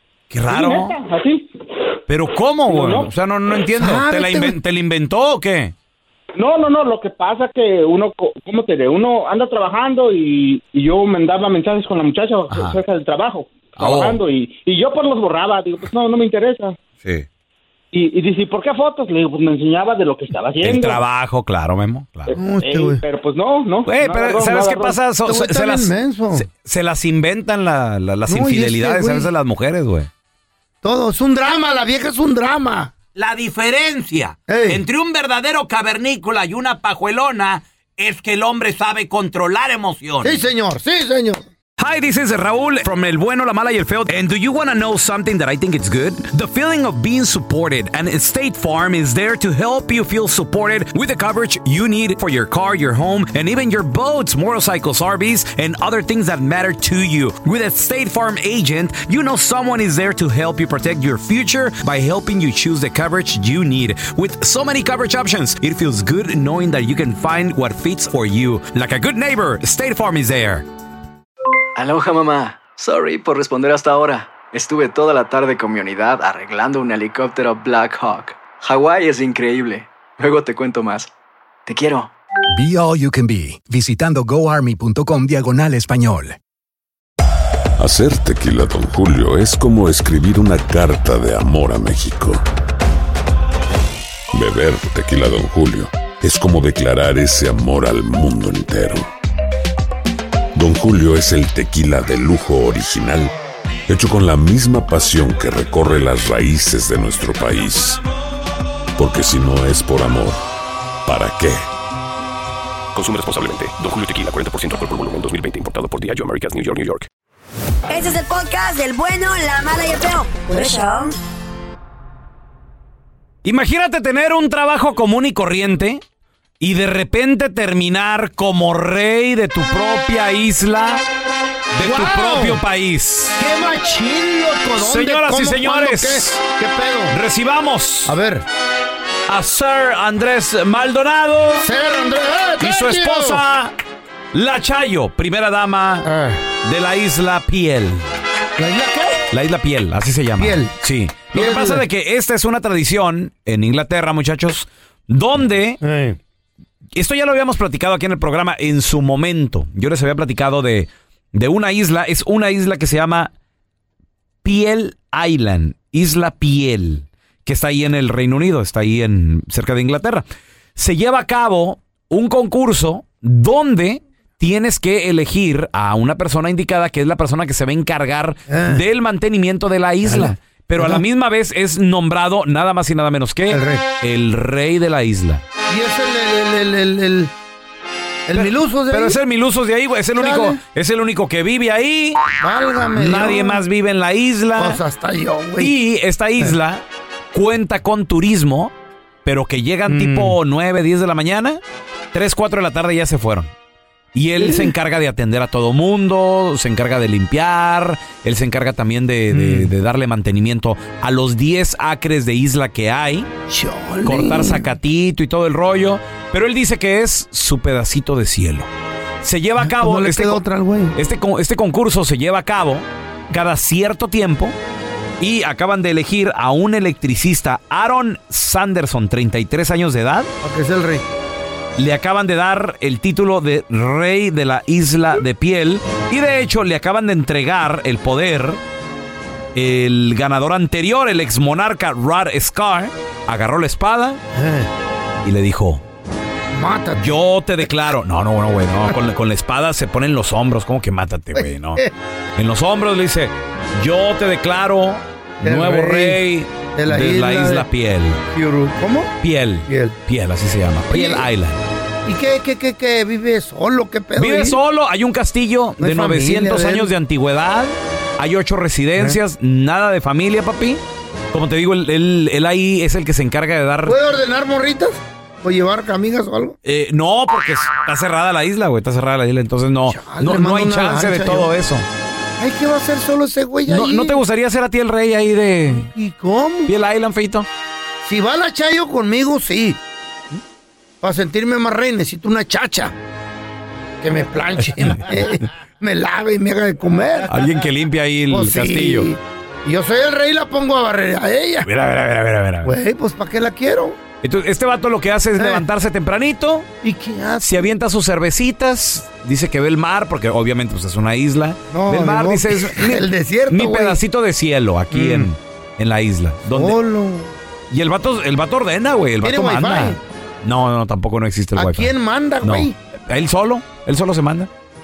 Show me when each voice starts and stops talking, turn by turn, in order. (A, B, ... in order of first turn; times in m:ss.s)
0:00.3-0:00.9 A
0:00.5-0:01.5 B
0:02.1-0:05.7 A
0:02.7-0:03.1 B
0:03.7-0:04.6 C
0:06.4-0:16.8 B
0:12.5-0:12.8 A
0:13.8-0:14.2 A
0:17.9-0:21.0 B
0:20.6-0:22.3 A
0:22.3-0:25.0 B
0:22.3-0:23.0 C
0:23.8-0:30.1 A
0:25.2-0:26.5 C
0:28.3-0:29.3 C
0:30.8-0:32.9 C
0:33.1-0:40.4 D
0:34.5-0:34.8 C
0:40.2-0:41.4 C
0:41.8-1:10.6 A
1:11.8-1:21.1 E
1:21.6-1:22.1 E
1:22.5-1:26.4 F
1:27.8-1:32.4 G
1:34.3-1:39.1 G
1:40.5-1:43.3 G
1:43.9-1:48.0 G
1:49.0-1:50.4 G
1:51.0-1:51.6 G
1:52.9-1:57.1 H
1:57.9-2:01.1 I
2:03.4-2:06.0 A
2:06.6-2:11.0 A
2:11.7-2:13.4 A
2:11.8-2:12.6 C
2:13.4-2:17.2 C
2:14.8-2:16.4 A
2:17.1-2:18.1 A
2:18.0-2:18.4 C
2:19.3-2:21.7 A
2:21.6-2:23.4 C
2:22.6-2:23.7 A
2:24.3-2:26.1 A
2:26.0-2:26.4 C
2:26.6-2:28.1 A
2:28.6-2:29.2 C
2:29.3-2:35.8 A
2:30.4-2:30.7 C
2:31.3-2:31.8 C
2:35.8-2:36.2 C
2:36.9-2:43.3 A
2:44.4-2:50.2 A
2:50.8-3:05.4 A
2:58.5-2:58.8 C
3:00.0-3:01.0 C
3:03.5-3:03.8 C
3:05.7-3:07.3 C
3:08.3-3:09.2 C
3:08.3-3:12.2 A
3:10.2-3:10.6 C
3:12.4-3:13.6 C
3:12.9-3:14.8 A
3:14.6-3:15.7 C
3:15.6-3:18.7 A
3:19.2-3:21.6 A
3:19.9-3:20.4 C
3:22.1-3:23.5 A
3:24.1-3:33.3 A
3:29.3-3:29.7 C
3:33.5-3:34.6 C
3:34.0-3:38.7 A
3:39.2-3:40.4 A
3:39.6-3:40.9 C
3:40.9-3:44.5 A
3:45.2-3:50.3 A
3:50.4-3:51.0 C
3:51.8-3:58.6 A
3:59.5-4:04.2 A
4:04.3-4:04.7 C
4:05.2-4:05.8 A
4:06.5-4:07.2 C
4:07.0-4:11.8 A
4:11.4-4:11.9 C
4:12.4-4:18.2 A
4:15.4-4:16.2 C
4:16.7-4:17.7 C
4:18.3-4:19.1 C
4:19.2-4:21.6 A
4:19.7-4:20.0 C
4:20.9-4:21.3 C
4:22.0-4:24.6 C
4:24.2-4:30.8 A
4:25.8-4:26.9 C
4:31.3-4:34.0 A
4:33.8-4:36.6 C
4:36.6-4:41.8 A
4:39.9-4:41.5 C
4:42.4-4:44.2 C
4:43.7-4:45.9 A
4:45.8-4:46.7 C
4:46.7-4:47.5 A
4:48.0-4:49.8 C
4:51.0-4:52.9 C
4:54.0-4:57.3 C
4:57.3-4:59.1 A
4:58.3-5:01.7 C
5:01.6-5:02.7 A
5:02.6-5:04.0 C
5:04.2-5:06.7 A
5:05.4-5:05.6 C
5:06.8-5:07.7 C
5:07.4-5:16.8 A
5:11.7-5:14.0 C
5:14.9-5:15.3 C
5:16.5-5:17.3 C
5:17.7-5:24.5 A
5:19.2-5:20.0 C
5:21.5-5:22.7 C